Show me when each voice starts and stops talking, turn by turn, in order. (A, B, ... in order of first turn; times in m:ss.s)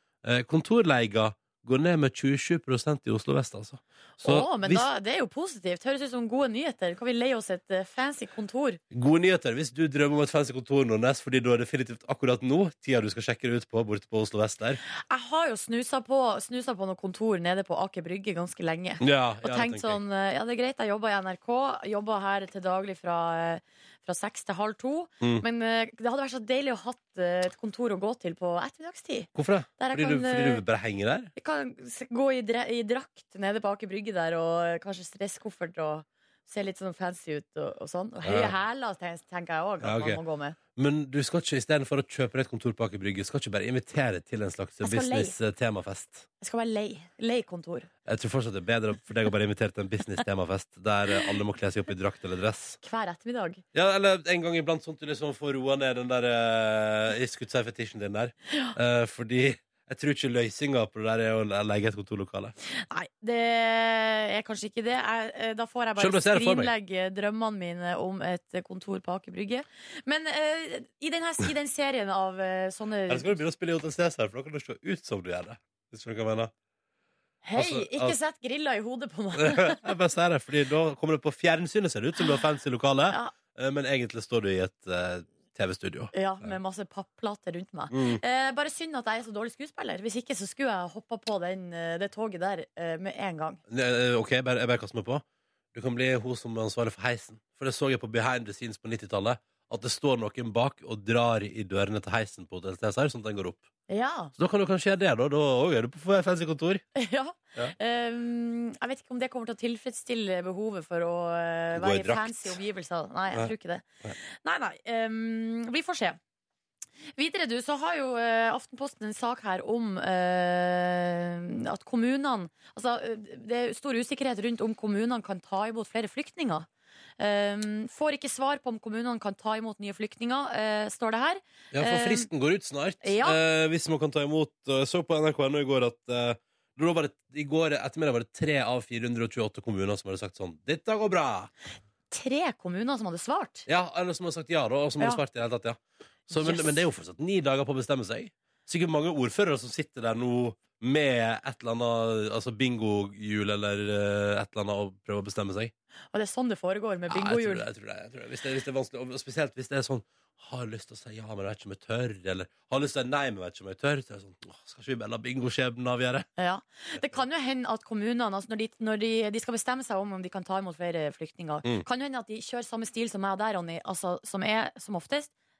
0:00.2-0:04.8 A
0:04.2-0:08.8 B
0:08.9-0:14.8 A
0:15.1-0:30.6 B
0:19.0-0:20.0 A
0:29.3-0:31.3 A
0:31.4-0:40.6 B
0:38.2-0:38.5 A
0:39.8-0:40.2 A
0:40.8-0:46.2 A
0:44.8-0:45.3 B
0:46.4-0:47.9 B
0:48.0-0:52.8 A
0:52.8-0:53.6 B
0:53.7-1:02.5 A
1:02.9-1:13.4 B
1:06.0-1:06.7 A
1:13.1-1:16.5 A
1:17.4-1:19.8 B
1:17.6-1:18.2 A
1:19.4-1:26.5 A
1:26.1-1:33.6 B
1:27.9-1:28.2 A
1:33.7-1:43.6 A
1:43.9-1:44.3 B
1:44.4-1:46.8 A
1:47.0-1:56.2 B
1:51.7-1:52.6 A
1:57.2-2:06.7 B
2:07.2-2:12.3 B
2:11.7-2:21.5 A
2:13.0-2:13.4 B
2:22.1-2:23.6 B
2:23.7-2:35.7 A
2:26.3-2:26.8 B
2:36.1-2:37.6 B
2:37.1-2:46.2 A
2:46.4-2:55.3 B